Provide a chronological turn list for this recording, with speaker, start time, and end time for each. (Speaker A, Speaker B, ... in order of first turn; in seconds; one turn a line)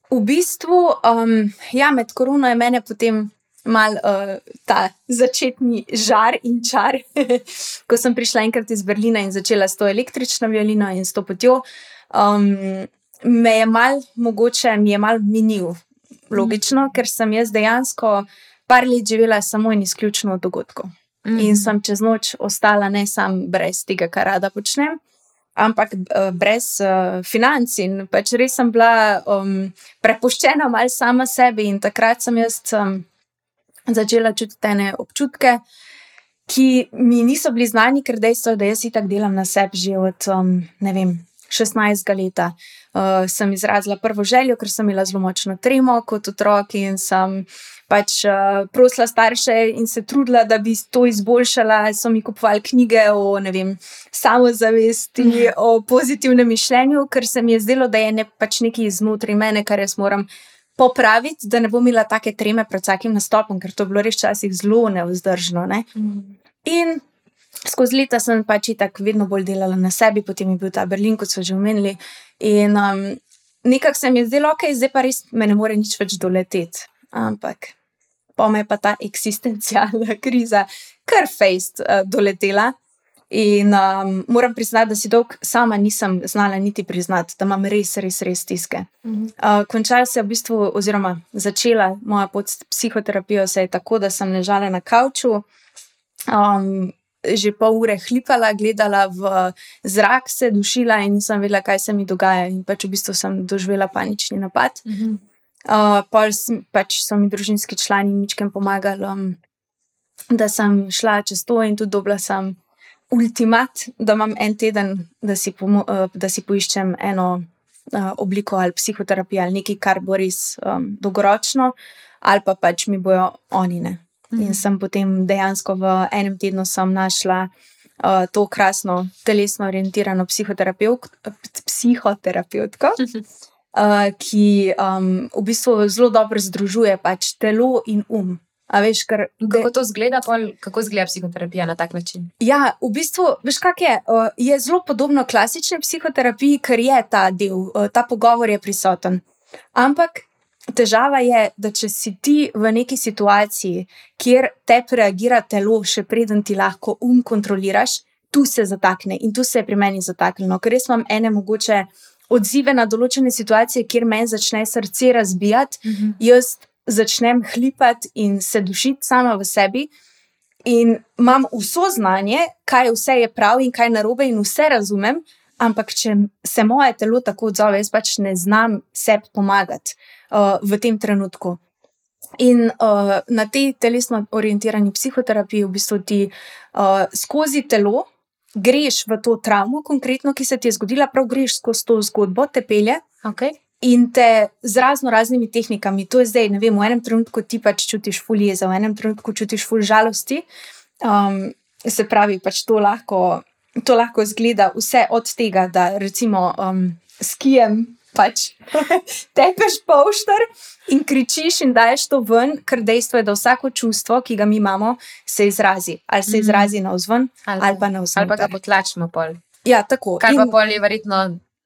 Speaker A: 0.1-25.0
Speaker B: 16.4-16.6
Speaker B: 21.3-21.7
Speaker A: 25.6-33.1
Speaker A: 33.9-35.6
Speaker A: 36.5-65.9
Speaker B: 55.2-55.5
Speaker B: 66.0-66.3
Speaker A: 66.6-67.0
Speaker A: 67.7-77.8
Speaker A: 78.4-82.7
Speaker A: 83.3-95.5
Speaker B: 89.0-89.3
Speaker A: 96.3-104.8
Speaker B: 104.9-105.2
Speaker A: 105.7-109.4
Speaker A: 110.3-112.6
Speaker A: 113.1-133.0
Speaker B: 124.3-124.6
Speaker A: 133.7-139.7
Speaker B: 139.4-142.3
Speaker A: 142.4-149.2
Speaker A: 149.8-169.9
Speaker B: 165.9-166.2
Speaker A: 170.7-181.6
Speaker A: 182.4-193.0
Speaker B: 193.2-193.6
Speaker A: 193.8-200.4
Speaker A: 201.0-218.5
Speaker B: 216.3-216.7
Speaker B: 217.5-219.4
Speaker A: 219.6-220.5
Speaker B: 220.2-221.4